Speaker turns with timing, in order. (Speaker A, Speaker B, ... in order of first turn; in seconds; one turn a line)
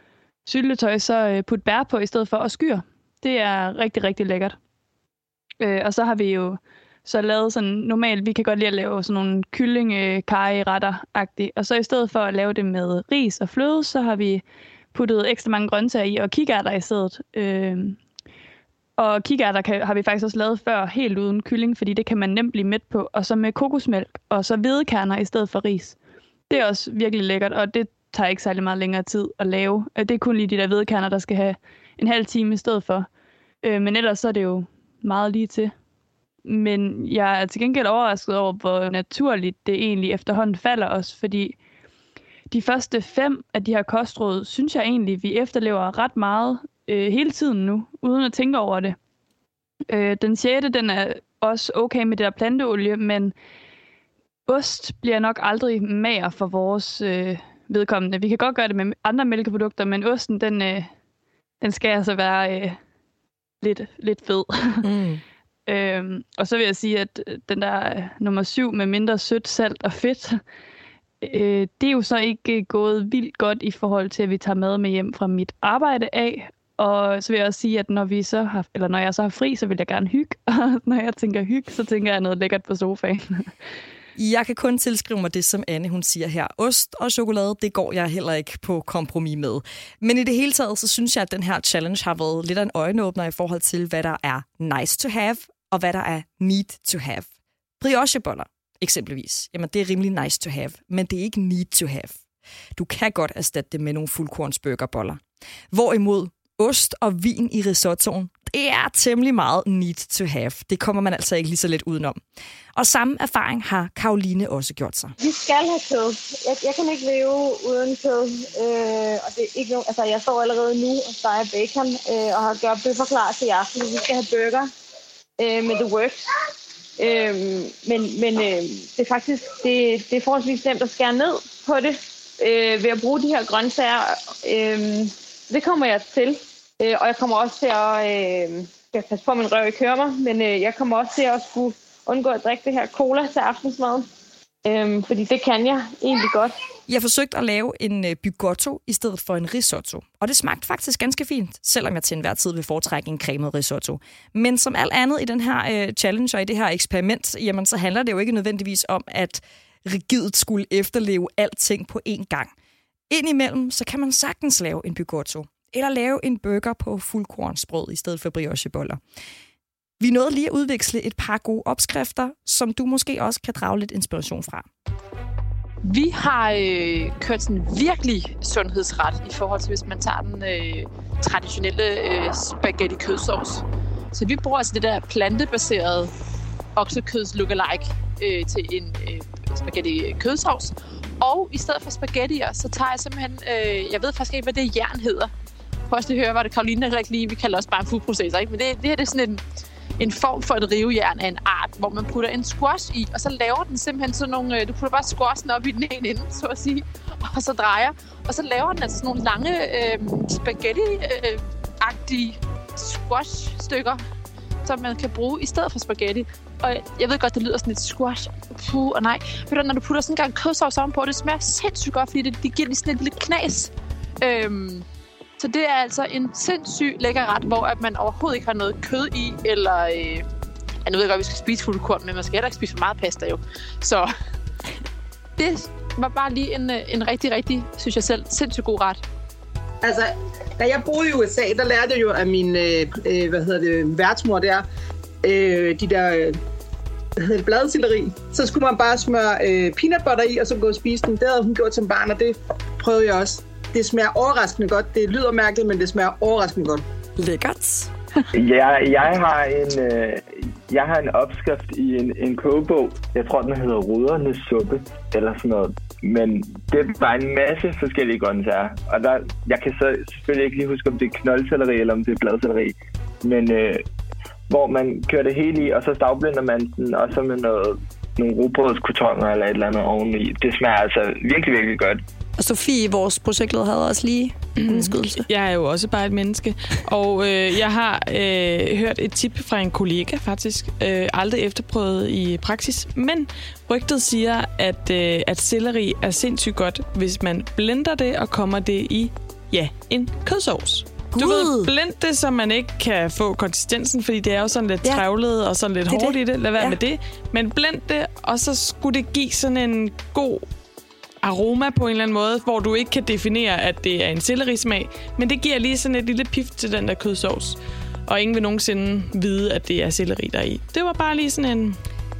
Speaker A: 0.5-4.5
Speaker A: 5.6-18.0
Speaker A: 19.0-26.0
Speaker A: 26.5-33.1
Speaker A: 33.6-35.7
Speaker A: 36.4-41.6
Speaker A: 42.5-49.0
Speaker A: 49.9-53.3
Speaker A: 54.5-60.9
Speaker A: 61.6-62.8
Speaker A: 63.6-64.8
Speaker B: 64.8-65.2
Speaker A: 65.7-70.4
Speaker A: 71.2-83.5
Speaker B: 84.2-97.3
Speaker B: 97.8-102.2
Speaker B: 102.8-112.2
Speaker B: 112.8-115.1
Speaker C: 115.2-124.7
Speaker C: 125.4-126.2
Speaker C: 127.0-144.1
Speaker C: 144.6-146.5
Speaker B: 146.9-162.5
Speaker B: 163.1-169.0
Speaker B: 170.0-174.7
Speaker D: 175.8-186.1
Speaker D: 186.8-195.3
Speaker D: 195.9-199.4
Speaker D: 200.0-214.0
Speaker D: 214.6-224.8
Speaker D: 225.4-230.2
Speaker D: 230.8-234.1
Speaker D: 235.4-239.0
Speaker E: 239.8-244.6
Speaker E: 245.2-246.4
Speaker E: 247.2-256.8
Speaker B: 257.2-257.9
Speaker F: 258.3-273.8
Speaker F: 274.5-282.0
Speaker B: 282.4-285.3
Speaker G: 284.6-310.4
Speaker B: 301.1-301.7
Speaker B: 305.9-306.8
Speaker G: 311.2-321.8